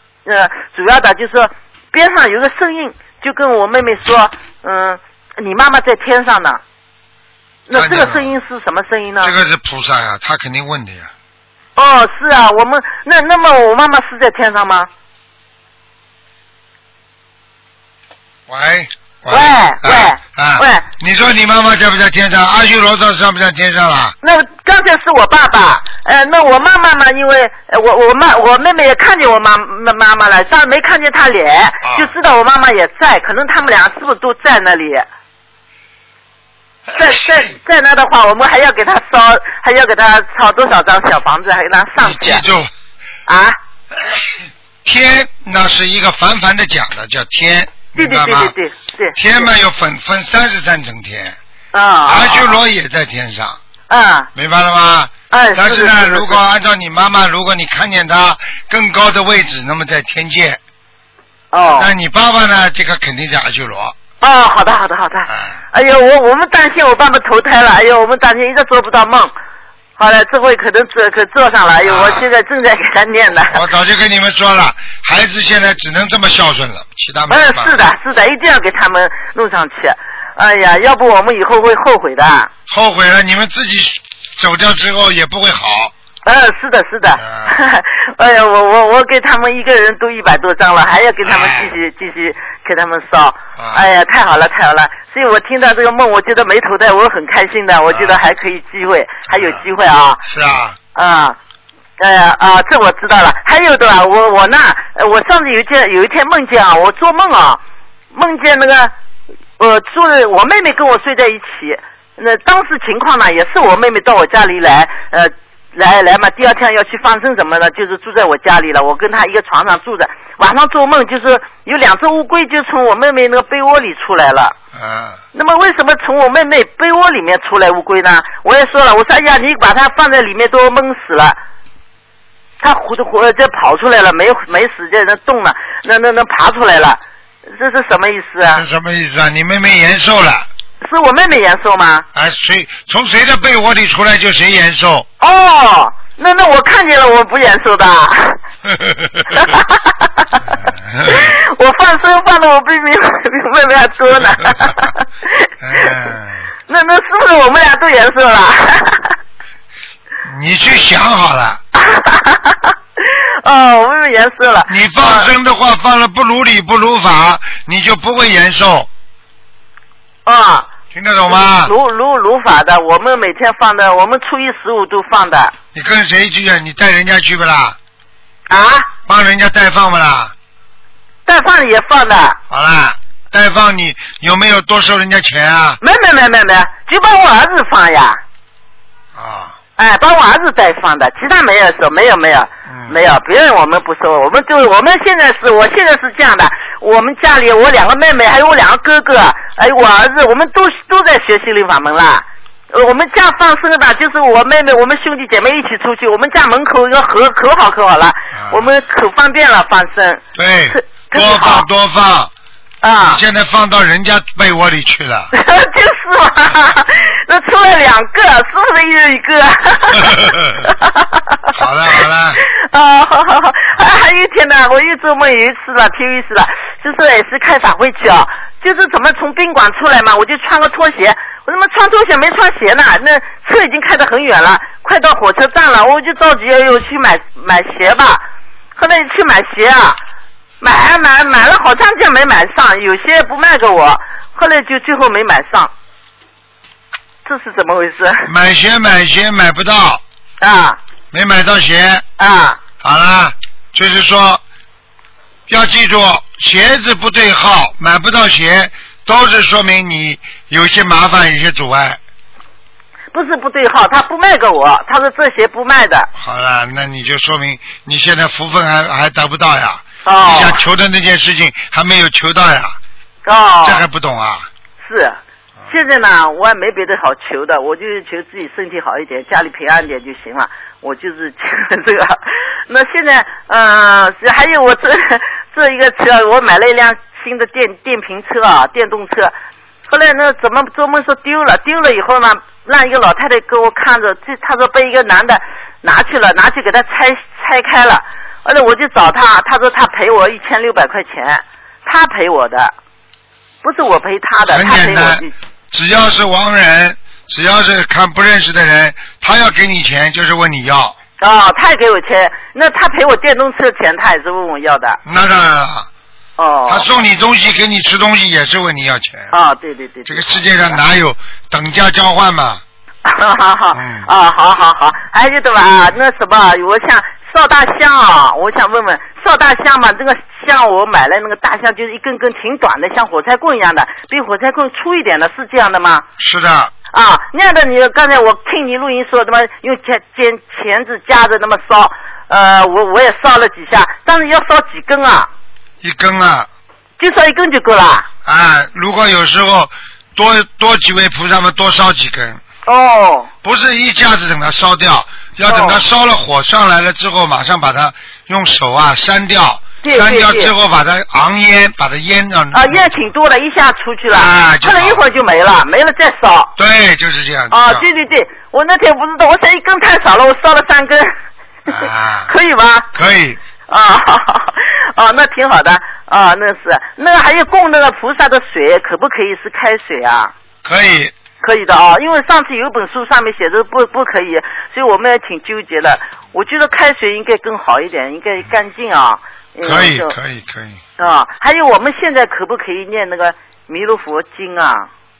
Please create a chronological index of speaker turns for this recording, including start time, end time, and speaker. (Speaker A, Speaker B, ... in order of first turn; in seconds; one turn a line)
Speaker A: 0.2-6.6
Speaker A: 7.7-9.3
Speaker B: 7.7-8.3
Speaker B: 9.2-11.1
Speaker A: 11.8-14.9
Speaker B: 18.5-24.1
Speaker A: 19.3-20.8
Speaker A: 24.2-35.1
Speaker B: 31.8-32.1
Speaker A: 36.9-42.4
Speaker B: 42.0-42.7
Speaker A: 43.3-43.6
Speaker B: 44.8-48.5
Speaker A: 48.0-49.5
Speaker B: 49.1-51.4
Speaker A: 51.7-52.6
Speaker B: 52.0-53.6
Speaker A: 53.9-54.3
Speaker B: 54.3-60.6
Speaker A: 55.3-56.4
Speaker A: 61.5-61.9
Speaker B: 61.6-64.0
Speaker A: 64.2-69.3
Speaker B: 65.2-65.6
Speaker A: 70.0-73.6
Speaker B: 71.8-72.3
Speaker B: 73.5-77.8
Speaker A: 77.3-82.5
Speaker B: 82.7-85.9
Speaker A: 86.2-100.2
Speaker B: 87.2-87.6
Speaker B: 91.2-91.7
Speaker B: 93.5-93.8
Speaker B: 97.9-98.2
Speaker B: 99.3-99.6
Speaker B: 100.2-100.8
Speaker A: 100.9-101.4
Speaker A: 102.0-107.6
Speaker A: 108.1-108.9
Speaker A: 109.6-124.5
Speaker B: 124.7-125.2
Speaker A: 125.3-131.4
Speaker A: 132.6-138.6
Speaker B: 138.4-140.5
Speaker A: 140.8-142.1
Speaker B: 142.1-145.1
Speaker A: 145.2-148.4
Speaker B: 148.7-149.4
Speaker A: 149.3-150.4
Speaker B: 150.4-151.3
Speaker A: 151.1-156.0
Speaker B: 154.3-154.7
Speaker B: 155.6-156.5
Speaker A: 156.7-159.2
Speaker B: 160.2-161.6
Speaker A: 161.7-165.3
Speaker B: 164.7-168.9
Speaker A: 170.2-170.7
Speaker B: 170.9-171.7
Speaker A: 171.3-175.5
Speaker B: 175.7-177.8
Speaker A: 178.5-178.9
Speaker B: 179.1-180.3
Speaker A: 181.2-182.4
Speaker B: 182.5-185.8
Speaker A: 185.8-188.2
Speaker B: 189.1-189.6
Speaker A: 189.8-211.7
Speaker B: 192.7-193.0
Speaker B: 208.3-208.7
Speaker B: 210.3-212.3
Speaker A: 212.8-213.2
Speaker B: 213.0-215.3
Speaker A: 215.3-221.3
Speaker B: 219.9-220.7
Speaker B: 221.5-222.4
Speaker A: 222.3-238.2
Speaker A: 238.8-240.0
Speaker A: 240.6-245.7
Speaker A: 247.2-248.3
Speaker B: 248.2-250.0
Speaker A: 250.4-250.8
Speaker B: 251.1-252.1
Speaker A: 252.2-252.6
Speaker B: 252.8-254.4
Speaker B: 255.5-262.0
Speaker A: 263.1-266.1
Speaker B: 266.1-272.8
Speaker A: 270.0-270.6
Speaker A: 273.2-273.9
Speaker B: 273.6-274.5
Speaker A: 274.8-289.3
Speaker A: 289.9-302.7
Speaker A: 303.6-305.3
Speaker B: 304.4-311.0
Speaker A: 311.2-315.0
Speaker B: 315.0-315.9
Speaker A: 316.4-316.9
Speaker B: 316.7-319.3
Speaker A: 319.3-320.8
Speaker B: 320.0-322.6
Speaker A: 323.0-336.1
Speaker B: 323.7-324.1
Speaker B: 336.2-336.7
Speaker A: 336.9-345.3
Speaker B: 345.8-346.5
Speaker A: 347.0-348.1
Speaker B: 348.2-352.4
Speaker A: 352.6-353.3
Speaker B: 353.4-363.1
Speaker A: 355.4-355.8
Speaker A: 359.8-360.5
Speaker A: 362.5-366.5
Speaker B: 364.1-365.2
Speaker B: 366.6-367.9
Speaker A: 367.5-371.1
Speaker B: 371.7-372.3
Speaker A: 372.3-372.9
Speaker B: 372.9-373.4
Speaker A: 373.7-380.3
Speaker B: 380.6-381.1
Speaker A: 381.4-390.1
Speaker B: 389.6-390.8
Speaker A: 391.0-394.9